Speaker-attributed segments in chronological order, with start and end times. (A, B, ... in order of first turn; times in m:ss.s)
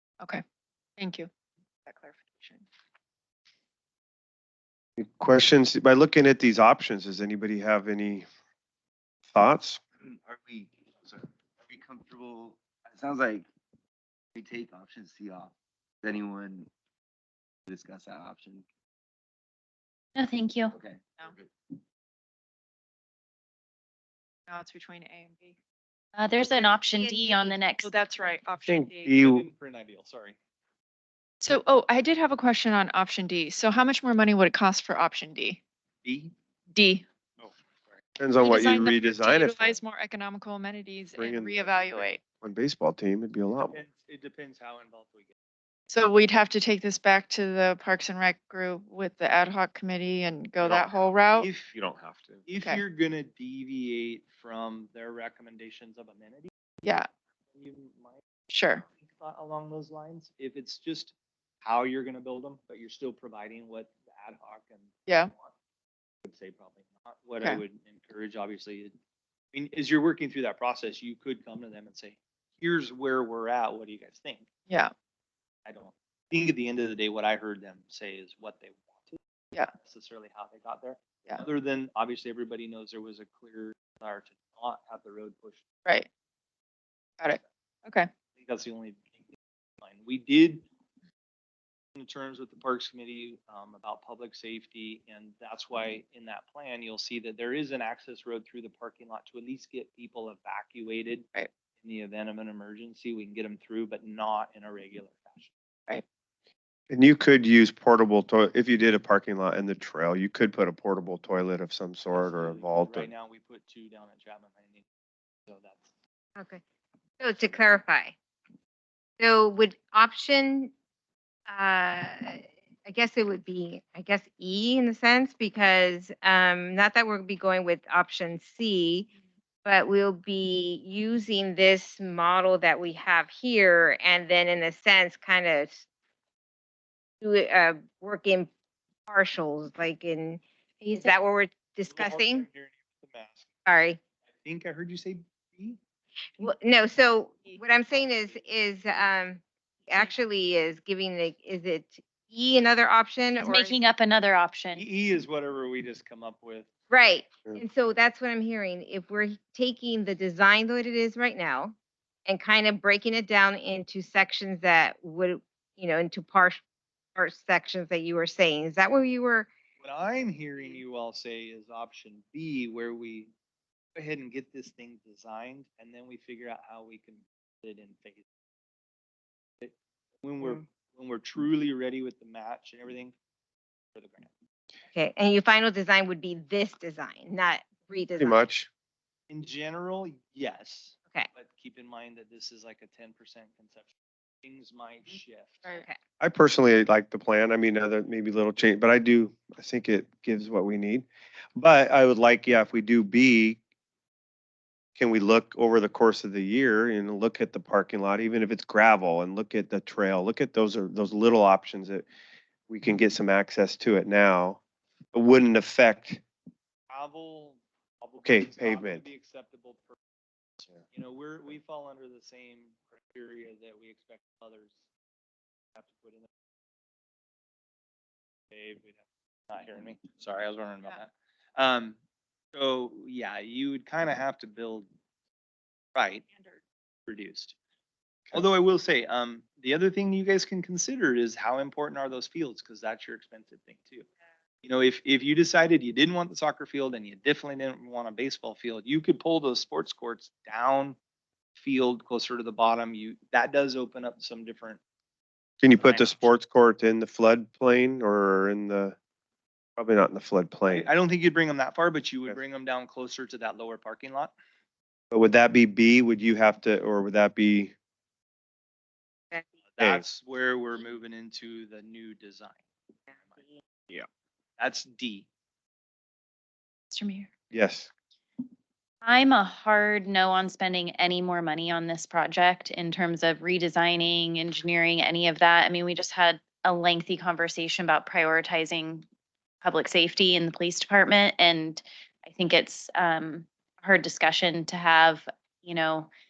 0:01.0-0:01.3 A
0:01.8-0:02.7 A
0:05.0-0:08.2 B
0:09.3-0:09.8 B
0:10.0-0:13.5 C
0:14.3-0:16.7 C
0:17.7-0:18.6 C
0:20.1-0:20.7 D
0:20.7-0:21.5 C
0:24.5-0:25.6 A
0:26.1-0:27.9 D
0:26.5-0:27.6 E
0:27.8-0:29.1 A
0:28.6-0:29.5 B
0:29.1-0:30.4 F
0:31.4-0:35.6 A
0:36.0-0:36.3 F
0:36.7-0:37.0 A
0:37.4-0:38.0 F
0:38.2-0:39.8 B
0:38.4-0:42.2 A
0:41.2-0:43.8 B
0:43.7-0:45.3 F
0:45.9-0:51.5 A
0:51.3-0:51.7 F
0:51.6-0:52.4 B
0:52.4-0:56.5 F
0:52.5-0:52.8 A
0:56.8-0:57.1 A
0:57.5-0:58.2 F
0:58.5-0:58.8 A
0:58.8-1:05.5 F
1:05.1-1:05.3 A
1:06.2-1:08.9 F
1:09.5-1:14.5 F
1:15.6-1:19.2 F
1:19.7-1:25.6 F
1:27.2-1:28.1 A
1:28.4-1:29.1 F
1:29.8-1:30.6 F
1:32.0-1:41.2 F
1:41.8-1:45.5 F
1:46.9-1:53.1 B
1:52.1-1:54.8 F
1:55.5-1:55.9 F
1:56.4-1:56.6 E
1:57.2-1:58.1 E
1:59.2-2:00.7 E
2:01.5-2:09.1 E
2:09.6-2:15.8 E
2:17.2-2:18.5 E
2:19.1-2:22.4 E
2:21.9-2:23.5 F
2:23.6-2:24.0 E
2:24.4-2:25.8 F
2:26.4-2:33.8 E
2:27.9-2:28.3 F
2:33.4-2:34.8 D
2:34.7-2:36.6 F
2:36.9-2:41.7 E
2:42.2-2:46.6 E
2:47.1-2:49.5 E
2:49.8-2:53.3 F
2:54.0-2:58.2 F
2:59.6-3:03.1 F
3:03.9-3:04.3 F
3:04.9-3:08.5 E
3:08.2-3:08.7 B
3:09.3-3:15.8 F
3:15.6-3:16.0 E
3:16.2-3:23.6 B
3:25.0-3:32.1 B
3:32.7-3:34.6 B
3:35.1-3:36.2 B
3:36.9-3:40.0 F
3:38.2-3:39.1 B
3:40.6-3:44.7 F
3:45.7-3:46.3 F
3:48.5-3:52.0 F
3:52.5-3:54.9 F
3:55.9-3:56.2 F
3:57.1-3:57.5 F
3:58.3-4:04.1 F
4:04.6-4:11.0 F
4:11.6-4:14.8 F
4:15.6-4:19.0 B
4:15.7-4:16.3 F
4:19.8-4:20.9 B
4:20.7-4:24.3 F
4:25.1-4:27.7 B
4:29.7-4:32.6 F
4:29.8-4:30.0 B
4:34.6-4:35.3 F
4:36.9-4:37.3 D
4:37.5-4:37.9 B
4:39.0-4:49.0 D
4:49.6-4:56.1 D